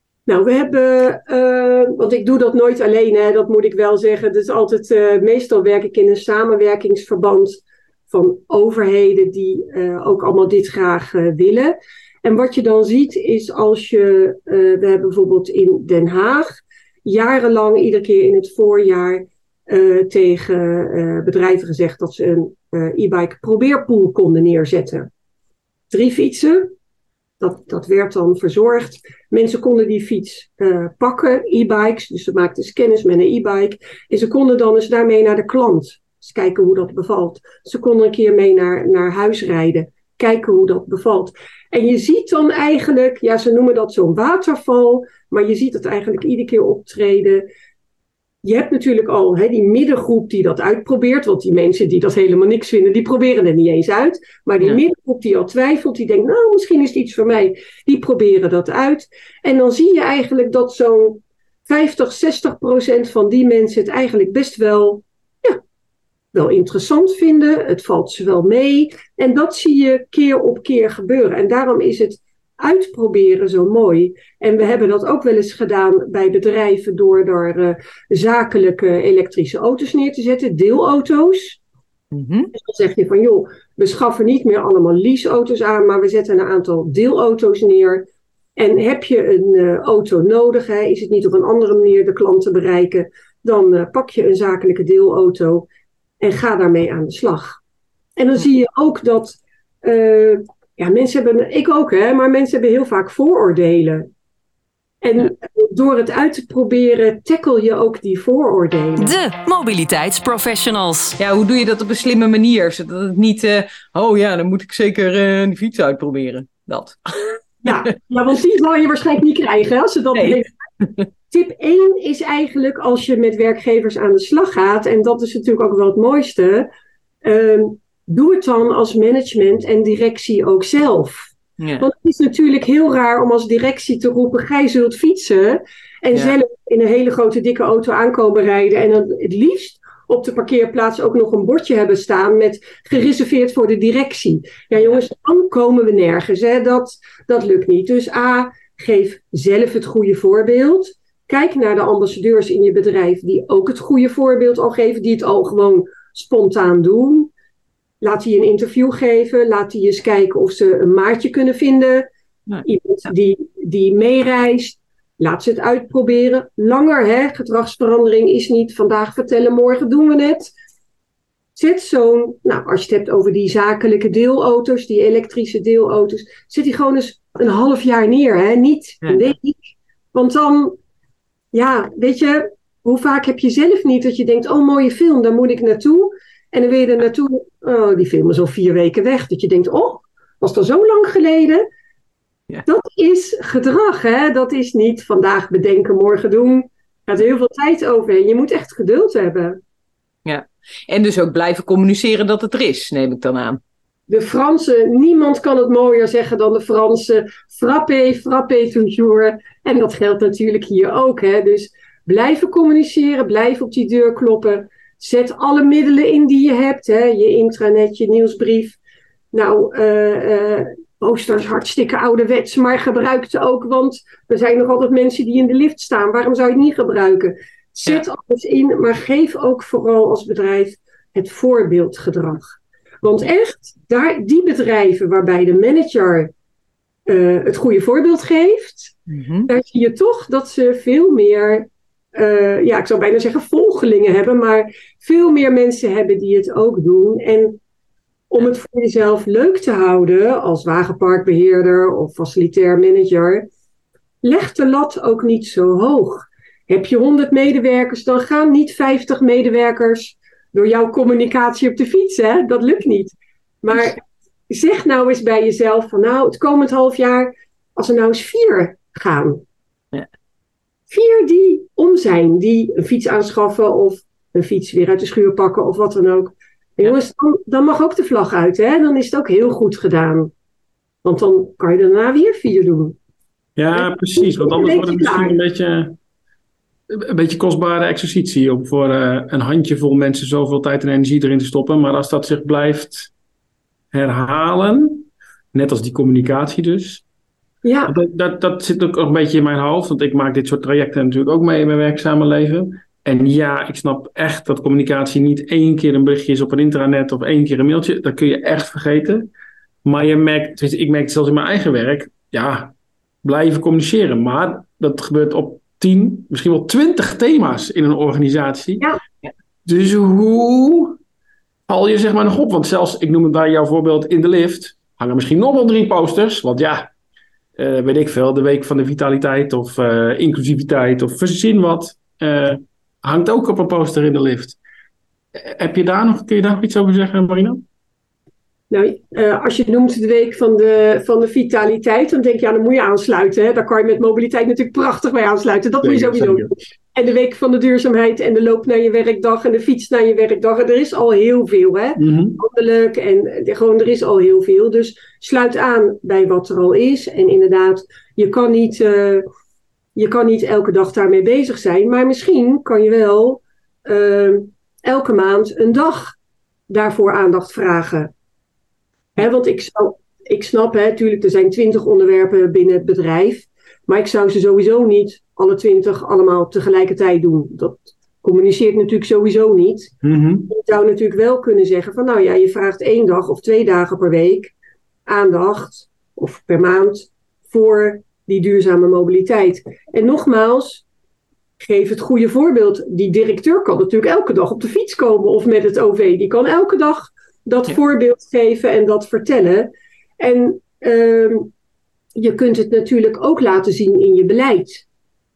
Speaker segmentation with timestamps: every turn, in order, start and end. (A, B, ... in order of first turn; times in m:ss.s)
0:00.3-0:16.5 A
0:17.0-0:25.1 A
0:25.9-0:26.7 A
0:27.4-0:47.5 A
0:48.4-1:05.6 A
1:06.3-1:21.6 A
1:22.1-1:22.5 B
1:22.5-1:28.1 A
1:28.6-1:35.7 A
1:36.2-1:37.6 A
1:38.2-1:44.1 A
1:45.0-1:49.2 A
1:49.0-1:51.2 C
1:51.2-1:57.4 B
1:57.6-2:00.5 A
2:00.2-2:01.0 B
2:01.3-2:06.7 A
2:07.2-2:37.3 A
2:11.6-2:11.9 B
2:38.0-2:42.1 A
2:42.6-2:50.5 A
2:51.6-3:00.8 A
3:01.5-3:11.7 A
3:12.7-3:19.6 A
3:20.2-3:23.6 B
3:24.1-3:38.8 A
3:39.3-3:52.5 A
3:53.0-3:56.3 A
3:57.1-3:59.0 A
3:59.1-3:59.5 B
3:59.5-4:07.6 A
4:08.3-4:13.5 A
4:14.2-4:29.4 A
4:30.9-4:40.3 A
4:41.0-4:43.0 A
4:43.6-4:46.0 D
4:43.7-4:45.4 A
4:46.9-4:53.1 D
4:53.9-4:57.0 D
4:57.6-4:57.9 A
4:57.9-5:09.3 D
5:09.8-5:18.8 D
5:19.6-5:21.0 D
5:21.7-5:26.9 D
5:27.6-5:34.6 D
5:35.4-5:37.6 D
5:38.7-5:59.2 A
5:45.8-5:46.5 D
5:52.0-5:52.4 D
6:00.0-6:06.2 A
6:06.7-6:08.1 A
6:09.2-6:20.0 A
6:20.0-6:20.5 D
6:20.5-6:24.5 A
6:25.1-6:30.8 A
6:31.6-6:41.5 A
6:42.2-6:44.8 A